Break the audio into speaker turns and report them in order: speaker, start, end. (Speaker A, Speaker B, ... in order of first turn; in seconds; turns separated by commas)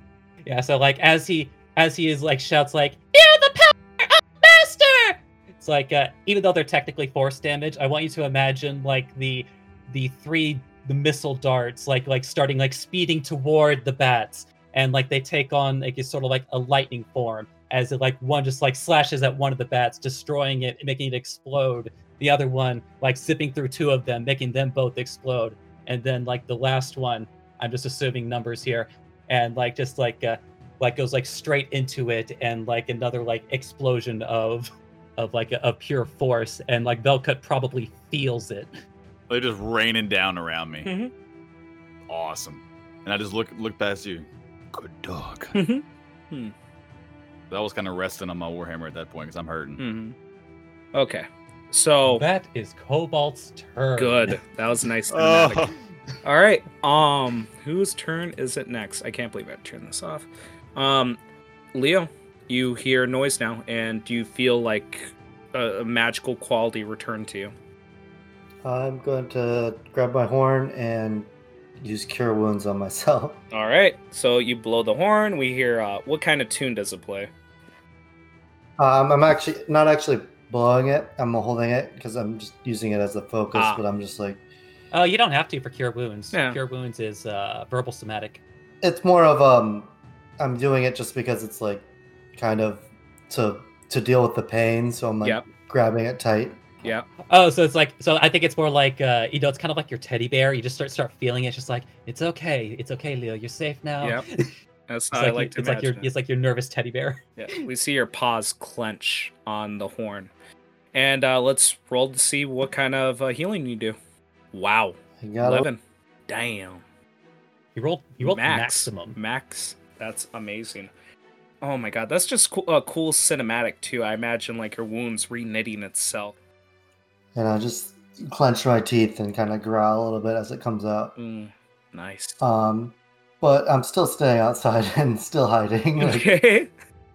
Speaker A: 0.5-38.8, Speaker B: 39.3-40.9, Speaker C: 40.9-41.1, Speaker B: 42.1-45.6, Speaker C: 45.5-46.5, Speaker B: 47.5-49.8, Speaker C: 49.8-50.1, Speaker C: 50.9-52.2, Speaker A: 52.0-54.4, Speaker C: 54.0-55.7, Speaker B: 55.1-55.8, Speaker C: 56.2-61.2, Speaker C: 61.7-67.5, Speaker D: 68.6-73.4, Speaker C: 73.5-77.3, Speaker D: 78.8-84.4, Speaker C: 83.5-83.8, Speaker A: 84.9-88.4, Speaker C: 86.3-86.6, Speaker D: 88.8-91.8, Speaker D: 92.4-96.6, Speaker A: 97.3-104.5, Speaker C: 104.9-106.1, Speaker A: 105.1-107.6, Speaker C: 107.4-110.3, Speaker C: 110.9-114.0, Speaker C: 114.5-116.8, Speaker D: 115.2-115.7, Speaker A: 117.8-119.2, Speaker C: 118.2-120.9, Speaker C: 121.6-126.4, Speaker D: 127.3-131.1, Speaker C: 131.2-132.4, Speaker D: 132.4-136.3, Speaker C: 136.0-136.7